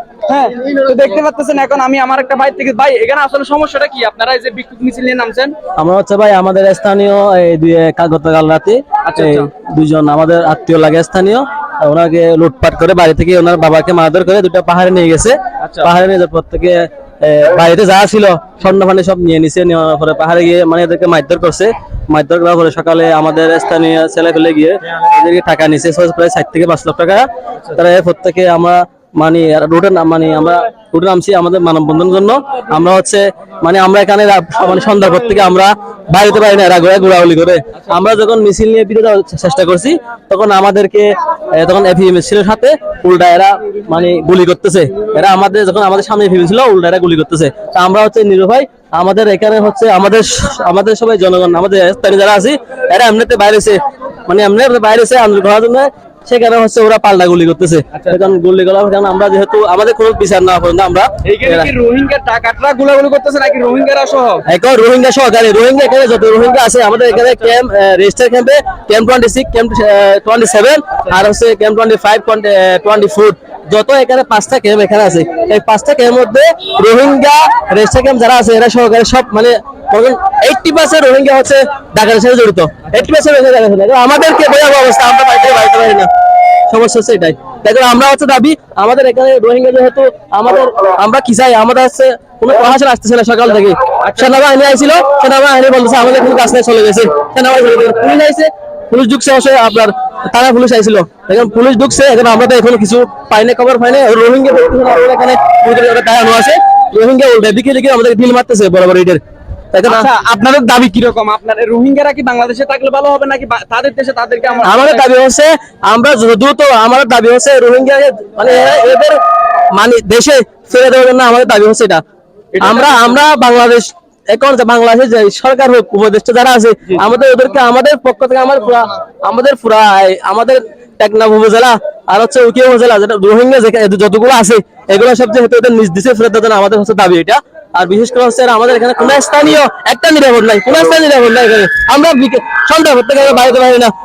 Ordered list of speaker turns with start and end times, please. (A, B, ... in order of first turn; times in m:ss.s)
0:00.3-0:05.5 A
0:05.8-1:01.7 B
0:09.1-0:09.5 A
0:15.6-0:15.9 A
0:57.9-0:58.2 A
1:01.2-1:04.4 A
1:04.5-1:26.1 B
1:26.7-1:49.2 B
1:49.7-1:50.1 B
1:49.8-1:55.1 A
1:54.6-1:59.2 B
1:59.7-2:02.0 B
2:02.6-2:03.2 A
2:02.6-2:23.9 B